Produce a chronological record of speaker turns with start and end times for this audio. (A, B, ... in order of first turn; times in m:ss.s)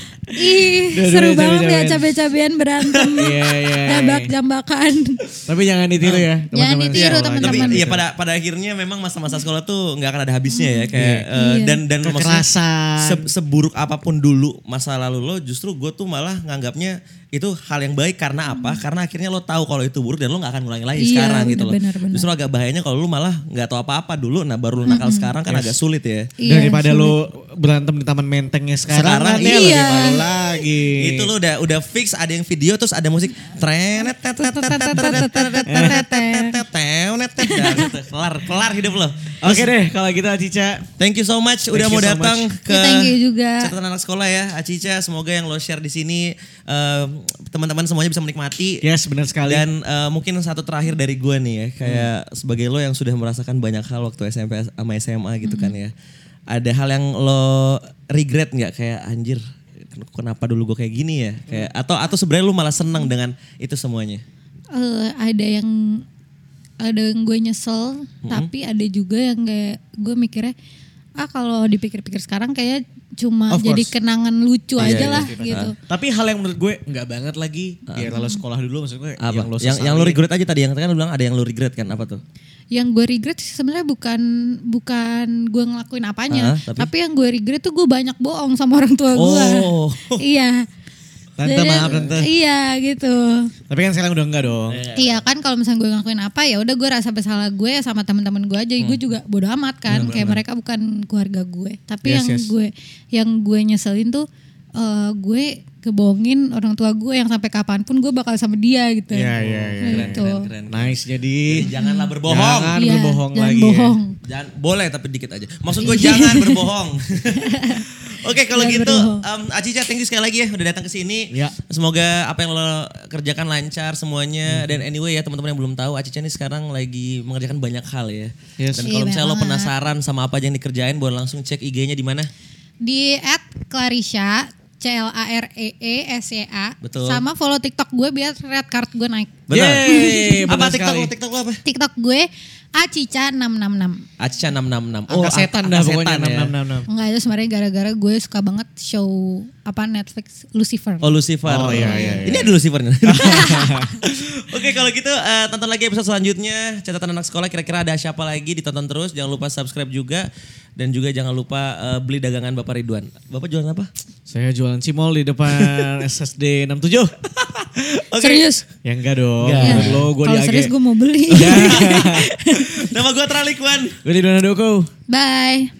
0:00.3-0:05.2 A
0:00.9-0:02.1 B
0:03.2-0:04.3 B
0:05.5-0:08.0 B
0:06.0-0:06.3 C
0:06.5-0:07.8 A
0:06.9-0:12.5 C
0:10.5-0:11.8 A
0:10.9-0:11.3 B
0:12.0-0:13.3 B
0:13.0-0:26.3 C
0:21.0-0:22.3 A
0:24.9-0:25.3 A
0:25.4-0:25.8 B
0:26.4-0:27.1 A
0:26.4-0:31.3 B
0:28.9-0:30.3 C
0:29.4-0:30.6 A
0:31.0-0:39.7 C
0:34.4-0:36.6 A
0:35.7-0:36.0 B
0:37.4-0:37.9 A
0:39.4-0:40.9 B
0:41.0-0:48.8 C
0:41.7-0:42.5 B
0:42.7-0:43.7 A
0:48.8-0:49.6 B
0:49.4-0:55.9 C
0:51.8-0:52.1 B
0:55.4-0:55.7 A
0:56.5-1:04.2 C
1:04.7-1:06.0 A
1:06.8-1:10.6 A
1:11.2-1:15.8 A
1:13.5-1:13.9 B
1:14.8-1:20.2 B
1:14.8-1:15.7 C
1:17.9-1:18.1 C
1:18.1-1:18.4 A
1:19.2-1:22.2 C
1:22.7-1:30.6 A
1:26.3-1:26.9 C
1:29.2-1:30.2 C
1:31.4-1:32.3 B
1:31.4-1:33.5 A
1:33.7-1:34.8 B
1:34.7-1:35.2 C
1:34.9-1:44.2 A
1:39.9-1:40.3 C
1:39.9-1:40.4 B
1:42.0-1:42.5 B
1:44.8-1:49.3 A
1:49.1-1:51.7 B
1:49.4-1:52.8 C
1:49.8-1:50.5 A
1:51.8-1:52.1 A
1:52.2-1:54.0 B
1:52.8-1:54.2 A
1:54.2-2:12.3 C
1:55.8-1:56.6 A
1:57.3-1:57.9 A
1:58.5-1:59.2 A
2:04.5-2:04.8 B
2:08.6-2:08.9 B
2:08.8-2:09.7 A
2:12.8-2:20.6 A
2:16.8-2:17.2 C
2:19.5-2:19.9 C
2:19.5-2:21.1 B
2:20.5-2:21.6 C
2:21.6-2:24.0 A
2:24.2-2:26.5 C
2:25.1-2:26.9 B
2:26.9-2:32.4 A
2:31.0-2:43.9 C
2:31.4-2:33.9 B
2:33.2-2:34.0 A
2:44.3-2:47.1 B
2:45.6-2:45.9 C
2:47.4-2:48.5 C
2:48.2-2:48.6 A
2:48.8-2:50.7 B
2:49.4-2:50.1 C
2:49.6-2:52.9 A
2:51.3-2:52.3 B
2:51.3-2:54.0 C
2:54.0-2:54.9 B
2:55.1-2:55.7 A